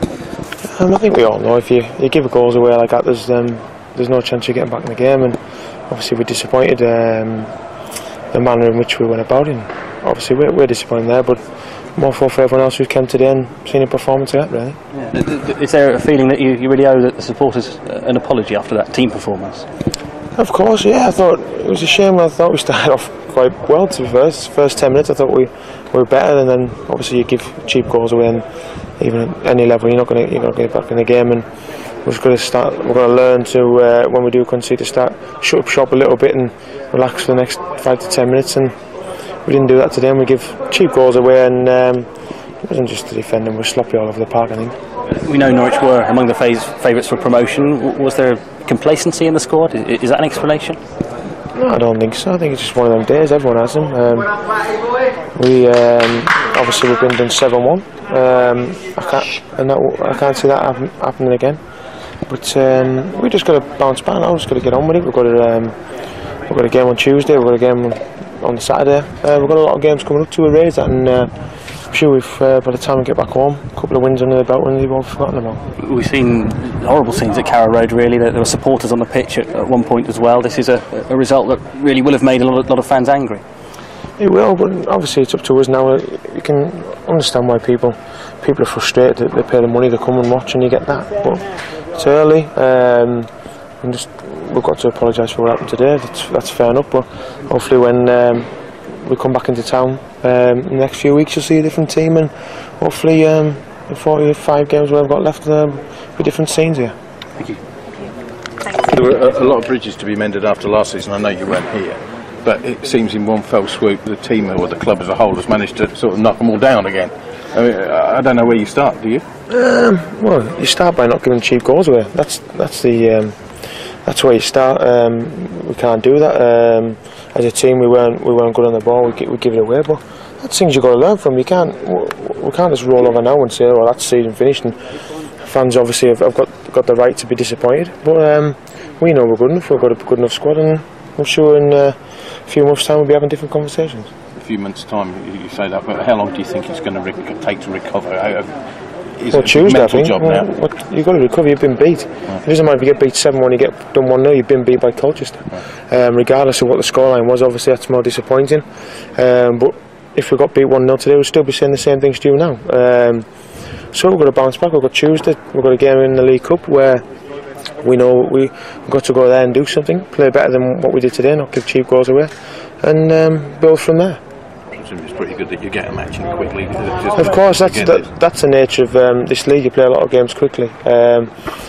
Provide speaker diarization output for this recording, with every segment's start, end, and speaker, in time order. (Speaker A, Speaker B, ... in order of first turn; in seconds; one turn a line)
Speaker A: 0.8-7.5
Speaker A: 8.3-11.4
Speaker A: 11.9-14.8
Speaker B: 15.0-19.6
Speaker A: 20.4-28.4
Speaker A: 29.0-31.4
Speaker A: 32.0-38.7
Speaker A: 39.4-42.0
Speaker A: 42.6-44.8
Speaker B: 45.2-50.8
Speaker A: 51.5-54.3
Speaker A: 55.4-61.6
Speaker A: 62.3-65.8
Speaker A: 66.5-71.3
Speaker A: 71.9-75.6
Speaker B: 75.8-83.4
Speaker A: 84.2-91.4
Speaker A: 91.9-93.3
Speaker A: 93.8-106.9
Speaker C: 108.7-119.2
Speaker A: 119.5-123.3
Speaker A: 124.0-134.8
Speaker A: 135.4-144.1
Speaker C: 144.3-148.5
Speaker C: 149.2-150.4
Speaker A: 149.3-163.2
Speaker A: 163.9-167.0
Speaker A: 167.8-174.2
Speaker C: 174.8-178.1
Speaker A: 177.2-181.3